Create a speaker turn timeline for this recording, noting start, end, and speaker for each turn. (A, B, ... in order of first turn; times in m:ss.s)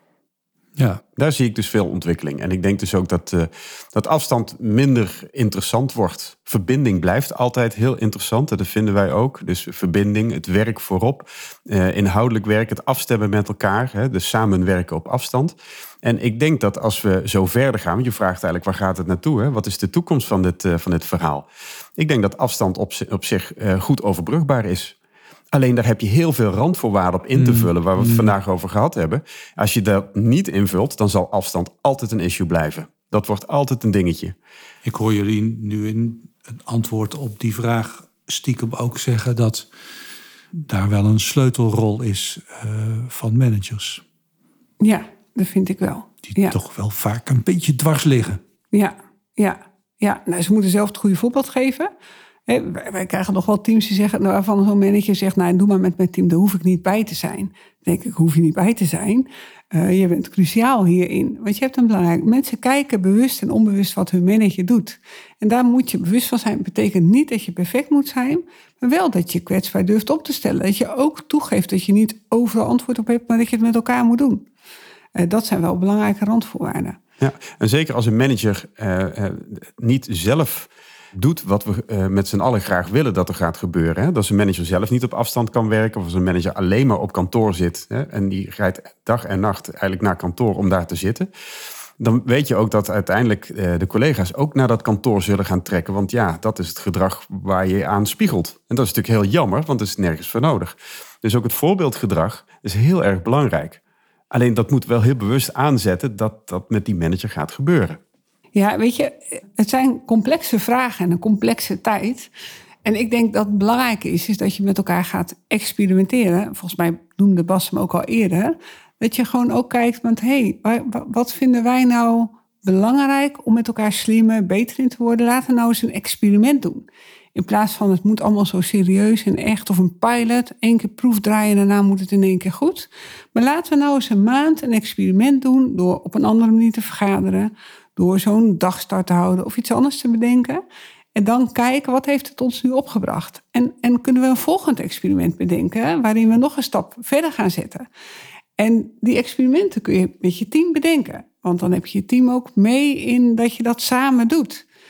0:00.8-0:01.0 A
0:01.2-0:21.4 B
0:22.0-0:24.9 B
0:25.5-0:34.3 B
0:27.3-0:28.3 A
0:34.8-0:39.7 A
0:40.5-0:44.0 A
0:44.8-0:46.6 C
0:46.3-0:48.4 A
0:48.7-0:51.9 C
0:52.5-1:14.4 C
1:15.2-1:17.0 C
1:17.2-1:31.3 B
1:32.0-1:43.8 B
1:44.3-1:48.0 B
1:48.5-1:52.3 C
1:52.8-2:20.6 C
2:21.1-2:27.8 C
2:28.6-2:34.6 C